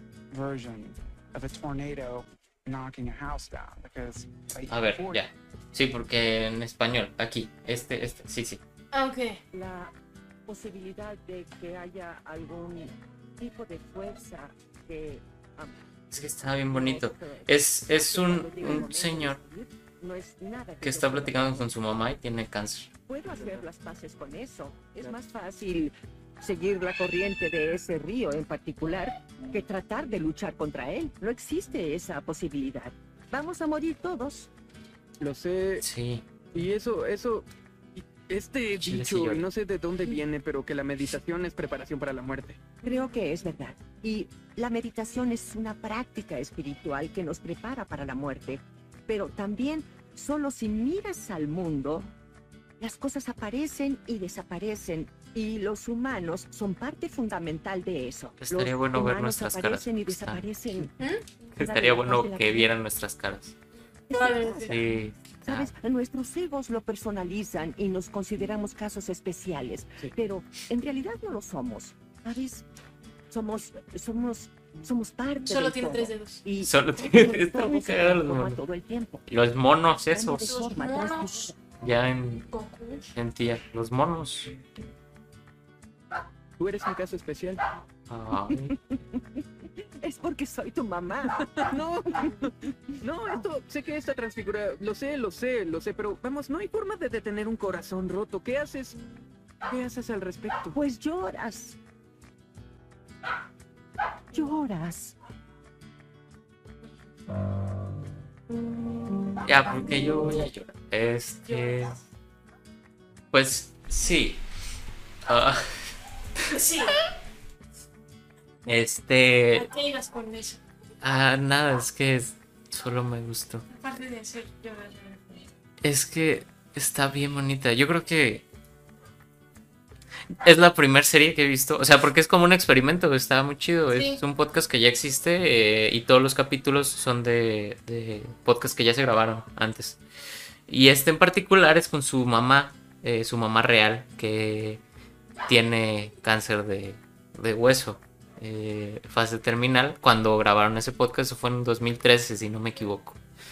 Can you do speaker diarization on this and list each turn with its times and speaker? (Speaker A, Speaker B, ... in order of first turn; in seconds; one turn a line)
Speaker A: 0.3-5.2
Speaker B: 4.7-8.6
Speaker C: 8.9-9.4
Speaker D: 9.5-9.9
Speaker D: 10.5-15.8
Speaker B: 16.1-19.4
Speaker D: 16.7-21.7
Speaker B: 20.8-22.9
Speaker D: 23.1-34.5
Speaker E: 35.2-35.8
Speaker B: 35.8-36.2
Speaker E: 36.5-42.7
Speaker B: 38.8-39.4
Speaker D: 42.8-52.1
Speaker D: 52.8-61.0
Speaker B: 58.4-60.5
Speaker C: 61.0-61.2
Speaker B: 61.5-63.5
Speaker D: 61.6-62.7
Speaker D: 64.1-72.6
Speaker C: 64.1-64.8
Speaker B: 64.7-65.7
Speaker D: 73.3-79.2
Speaker C: 75.5-76.4
Speaker B: 76.6-78.6
Speaker B: 79.3-80.5
Speaker D: 80.1-81.5
Speaker C: 80.4-81.5
Speaker B: 81.8-82.5
Speaker C: 82.5-83.0
Speaker B: 83.1-84.6
Speaker E: 86.6-87.6
Speaker B: 88.1-88.7
Speaker D: 88.5-92.4
Speaker E: 91.3-99.0
Speaker E: 99.6-100.8
Speaker D: 100.7-101.8
Speaker D: 104.3-105.2
Speaker B: 109.5-112.0
Speaker C: 111.5-112.0
Speaker B: 113.3-114.4
Speaker B: 115.3-115.9
Speaker C: 116.5-117.0
Speaker B: 118.7-119.7
Speaker C: 119.5-120.6
Speaker B: 121.0-123.6
Speaker C: 123.7-125.4
Speaker B: 125.8-128.4
Speaker B: 130.4-140.0
Speaker C: 133.9-134.2
Speaker B: 140.7-144.8
Speaker B: 145.4-153.2